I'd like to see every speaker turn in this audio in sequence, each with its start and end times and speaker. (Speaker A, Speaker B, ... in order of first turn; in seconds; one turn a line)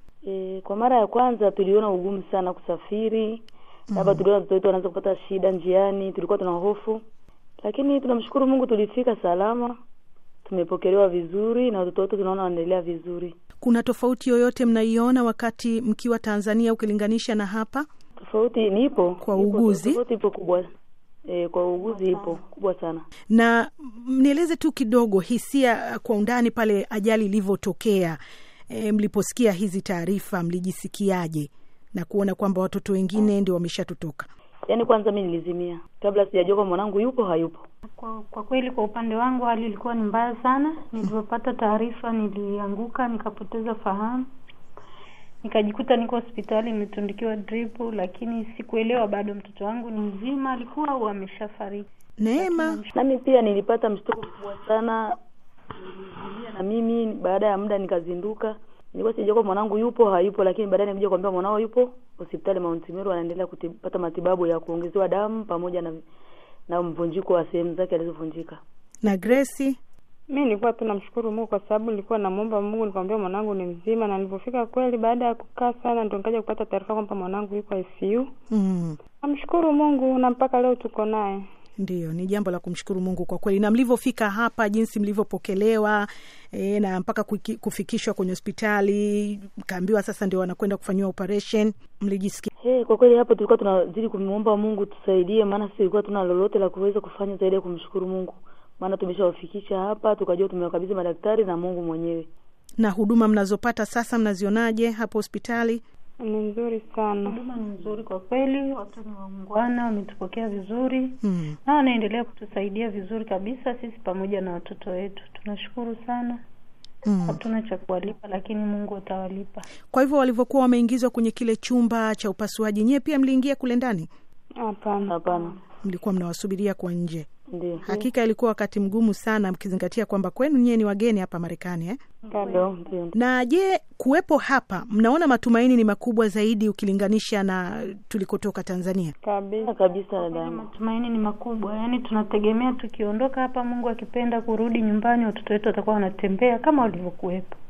Speaker A: 0.2-7.0
Speaker B: 3.9-4.2
Speaker A: 7.6-9.8
Speaker A: 10.4-13.3
Speaker B: 13.6-17.9
Speaker A: 18.2-20.7
Speaker B: 19.2-20.0
Speaker A: 21.3-23.1
Speaker B: 23.3-28.2
Speaker B: 28.7-34.3
Speaker A: 34.7-37.6
Speaker C: 38.0-44.3
Speaker C: 45.4-52.9
Speaker B: 52.2-52.8
Speaker A: 52.9-55.2
Speaker A: 55.8-66.0
Speaker A: 66.7-68.6
Speaker B: 69.0-69.8
Speaker D: 70.3-78.3
Speaker B: 78.5-79.0
Speaker D: 79.2-81.4
Speaker B: 81.8-92.5
Speaker A: 92.6-102.3
Speaker B: 102.8-105.8
Speaker D: 106.2-107.4
Speaker C: 107.2-116.4
Speaker B: 111.2-111.6
Speaker B: 117.0-117.4
Speaker C: 117.2-119.7
Speaker B: 119.9-124.1
Speaker D: 124.6-125.1
Speaker A: 125.1-125.5
Speaker B: 125.8-127.3
Speaker A: 127.5-128.0
Speaker B: 127.8-132.0
Speaker C: 132.2-132.8
Speaker D: 132.3-132.6
Speaker A: 132.4-133.1
Speaker B: 133.1-139.1
Speaker D: 139.2-139.7
Speaker A: 139.6-140.7
Speaker C: 140.2-147.5